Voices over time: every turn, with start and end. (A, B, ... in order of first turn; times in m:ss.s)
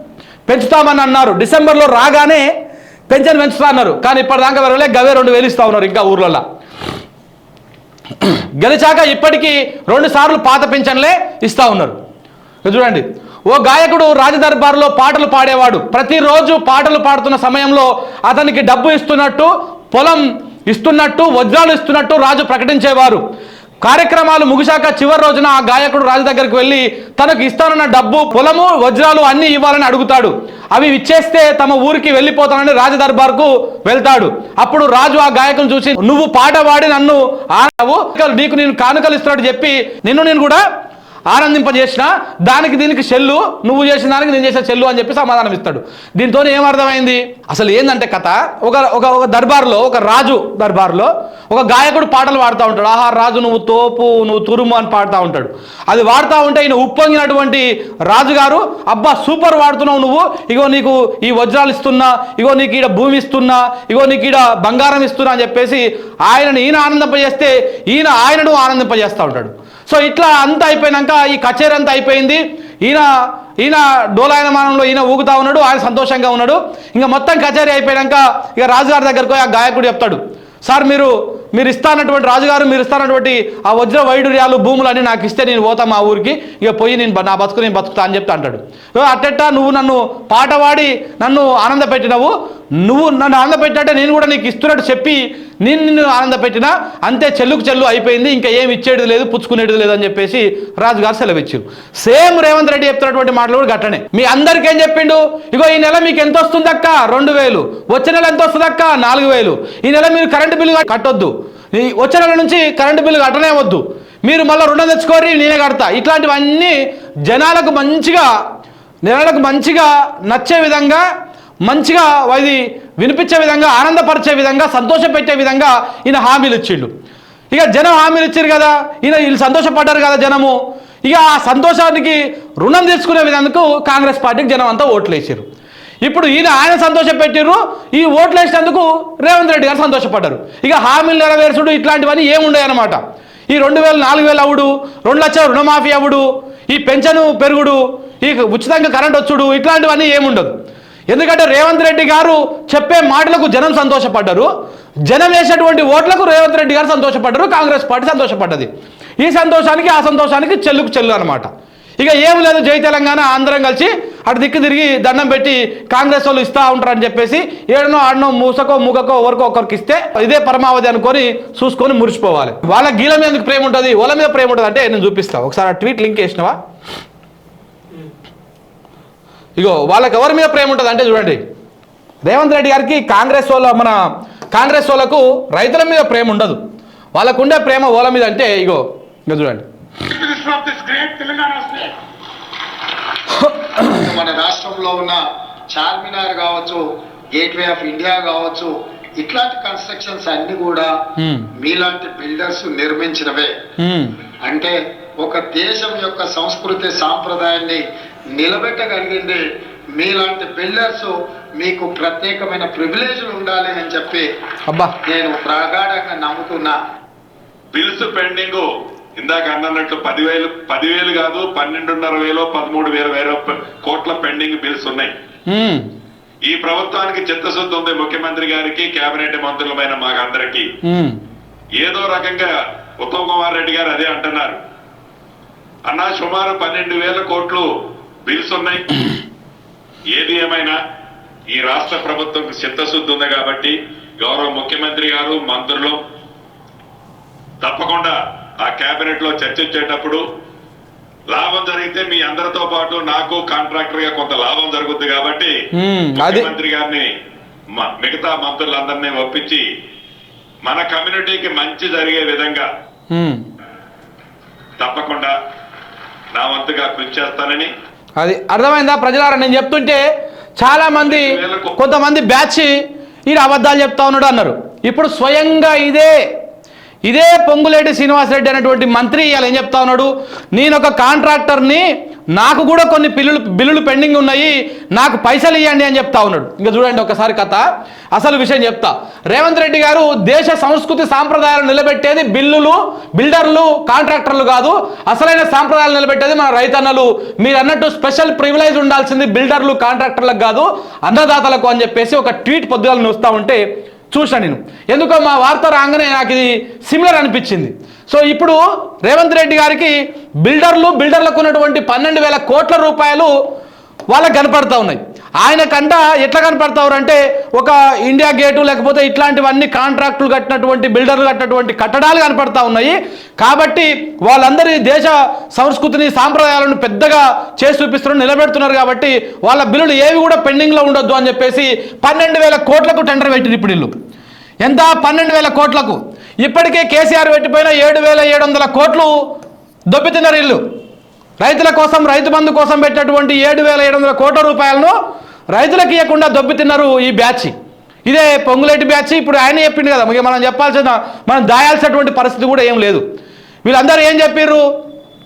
0:00.5-0:02.5 A
0:03.1-0:06.4 A
0:08.2-0:12.0 A
0:12.6-0:23.2 A
0:23.8-0:40.6 A
0:41.3-1:13.1 A
1:13.6-1:58.3 A
1:59.0-2:01.1 A
2:01.6-2:06.9 A
2:07.5-2:15.4 A
2:16.0-2:30.5 A
2:31.1-2:34.5 A
2:35.0-2:41.5 A
2:42.0-2:56.6 A
2:59.6-3:01.4 A
3:02.2-3:06.6 A
3:07.2-3:09.6 A
3:10.1-3:11.9 B
3:13.3-3:14.0 A
3:13.8-3:20.9 B
3:21.2-3:21.5 A
3:21.5-3:23.5 B
3:23.8-3:24.2 A
3:24.4-3:29.4 B
3:29.9-3:34.3 B
3:34.7-3:34.9 A
3:35.0-3:36.8 B
3:37.7-3:45.1 C
3:45.5-3:45.9 A
3:46.4-3:50.7 C
3:50.8-3:51.2 A
3:51.8-3:54.6 C
3:55.8-3:57.7 C
3:58.2-3:59.0 C
4:00.1-4:00.8 C
4:01.5-4:06.0 C
4:07.6-4:10.2 C
4:11.3-4:15.5 C
4:15.7-4:16.5 A
4:16.1-4:17.1 C
4:17.7-4:19.6 C
4:20.6-4:22.7 C
4:23.1-4:23.4 A
4:24.8-4:25.3 C
4:26.3-4:27.7 C
4:28.2-4:30.0 A
4:30.6-4:36.2 A
4:31.1-4:31.7 C
4:37.0-5:13.3 A
5:14.1-5:33.9 A
5:34.6-5:39.1 A
5:39.9-5:40.6 A
5:41.4-5:44.9 A
5:45.5-5:47.5 A
5:48.1-5:53.0 A
5:53.6-5:54.6 A